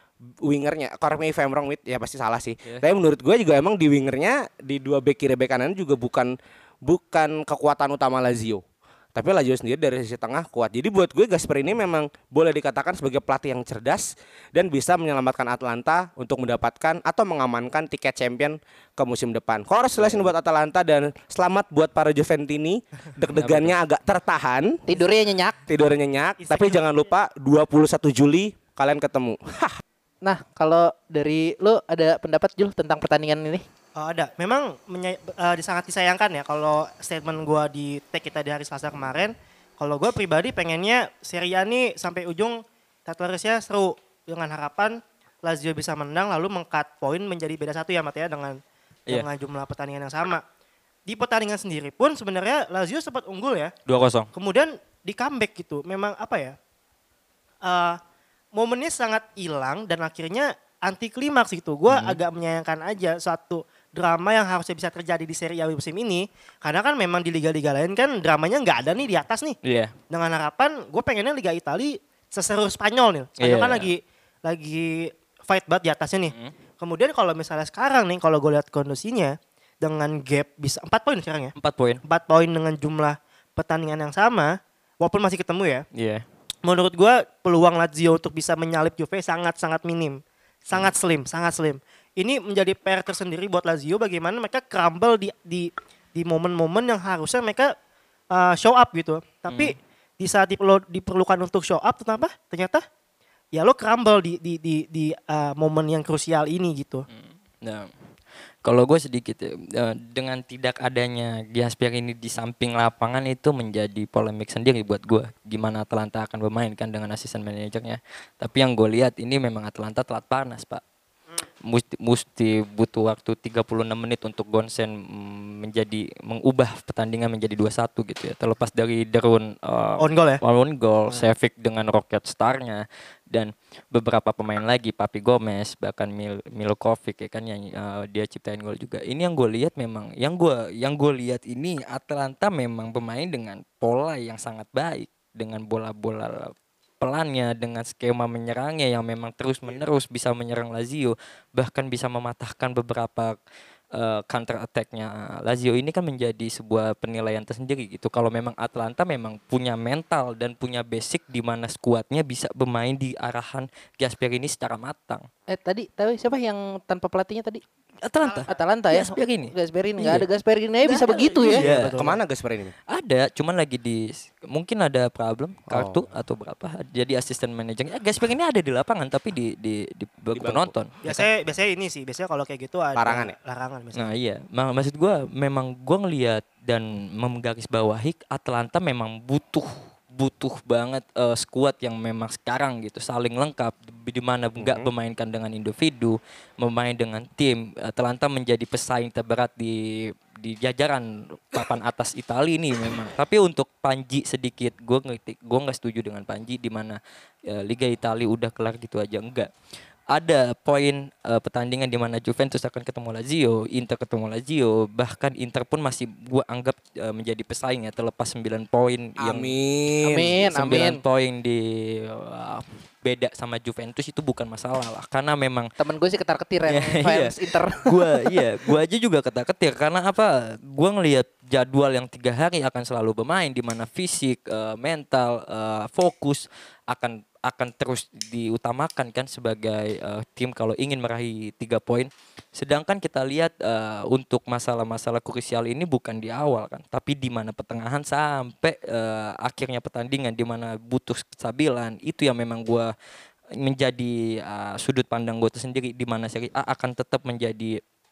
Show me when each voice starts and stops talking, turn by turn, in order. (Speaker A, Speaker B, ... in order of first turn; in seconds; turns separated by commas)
Speaker A: 0.3-8.6, Speaker A: 9.1-24.9, Speaker B: 23.3-23.7, Speaker C: 24.9-25.6, Speaker A: 25.7-29.8, Speaker D: 26.4-26.8, Speaker C: 30.2-33.6, Speaker D: 34.0-50.4, Speaker D: 51.1-53.7, Speaker B: 53.9-54.3, Speaker D: 54.3-56.6, Speaker D: 57.6-58.0, Speaker D: 58.5-69.6, Speaker B: 61.9-62.2, Speaker B: 69.6-69.9, Speaker D: 70.1-81.5, Speaker B: 73.4-73.9, Speaker B: 81.5-82.0, Speaker D: 82.0-85.8, Speaker B: 85.9-86.2, Speaker D: 86.6-97.7, Speaker D: 98.3-102.8, Speaker B: 99.5-99.7, Speaker D: 103.5-107.1, Speaker B: 107.1-107.9, Speaker B: 108.6-120.8, Speaker B: 121.6-153.4, Speaker D: 130.0-130.4, Speaker B: 153.9-165.2, Speaker C: 165.5-167.6, Speaker B: 168.0-170.3, Speaker D: 168.2-168.5, Speaker C: 168.4-171.7, Speaker D: 170.8-172.2, Speaker B: 171.6-172.0, Speaker A: 171.9-172.7, Speaker B: 172.9-181.3, Speaker A: 175.7-176.1, Speaker A: 180.3-180.7, Speaker D: 181.0-184.1, Speaker A: 182.9-183.3, Speaker B: 183.9-209.5, Speaker A: 194.6-194.9, Speaker B: 210.1-219.5, Speaker A: 219.2-220.4, Speaker C: 220.0-221.0, Speaker B: 220.5-225.7, Speaker C: 225.8-228.3, Speaker B: 226.7-252.9, Speaker B: 253.6-257.8